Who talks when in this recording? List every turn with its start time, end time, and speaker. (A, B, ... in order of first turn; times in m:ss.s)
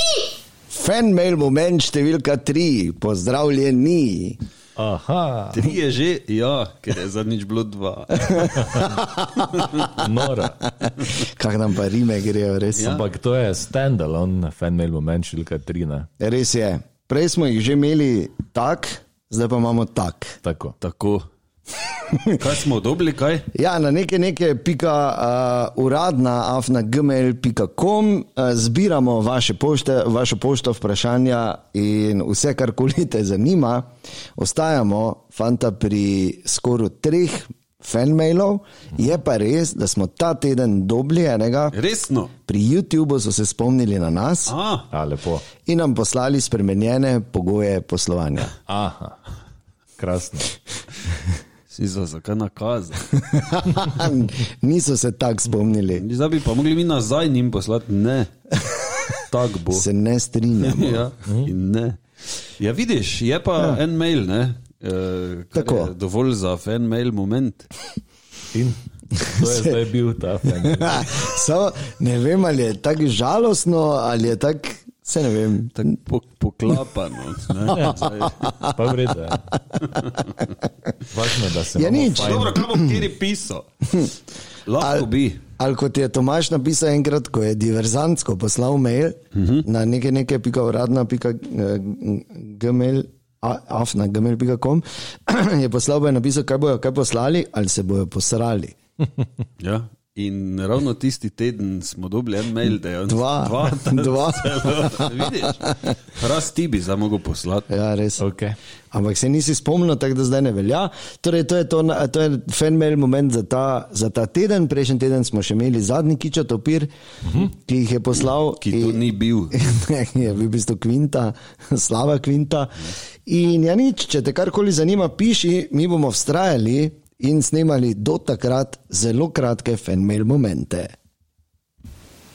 0:00.7-0:04.4 A
0:04.8-0:05.6 B
0:05.5-0:08.7 C
0:08.4-0:09.5 A
0:09.6-0:09.8 C
0:09.9-0:10.6 B
0:11.0-0:13.0 A
0:12.8-0:13.1 C
0:12.9-0:16.1 B
0:16.2-0:20.4 A
0:20.4-0:20.8 B
0:20.8-0:21.2 C
0:22.4-0:23.4 C
0:23.5-0:33.8 A
0:34.4-0:41.8 A
0:41.7-0:42.3 C
0:42.5-0:44.5 A
0:44.5-0:44.9 C
0:44.9-0:45.5 B
0:45.6-0:48.5 A
0:48.7-0:49.2 B
0:50.0-0:50.5 B
0:51.7-0:53.1 C
0:53.1-0:56.0 A
0:56.0-0:58.3 C
0:59.3-0:59.9 C
0:59.7-1:01.1 A
1:00.6-1:07.7 C
1:05.5-1:05.9 A
1:08.5-1:11.2 B
1:10.6-1:15.8 A
1:15.8-1:18.5 C
1:18.4-1:18.7 A
1:18.6-1:19.5 B
1:21.1-1:22.6 B
1:21.7-1:22.8 A
1:22.1-1:23.6 C
1:24.7-1:25.4 C
1:24.8-1:25.1 A
1:25.6-1:38.8 A
1:29.4-1:29.6 C
1:39.6-1:47.7 C
1:43.1-1:45.3 A
1:47.7-1:48.2 A
1:48.2-1:48.6 B
1:48.9-2:02.8 A
1:58.6-1:59.5 C
2:03.3-2:10.9 A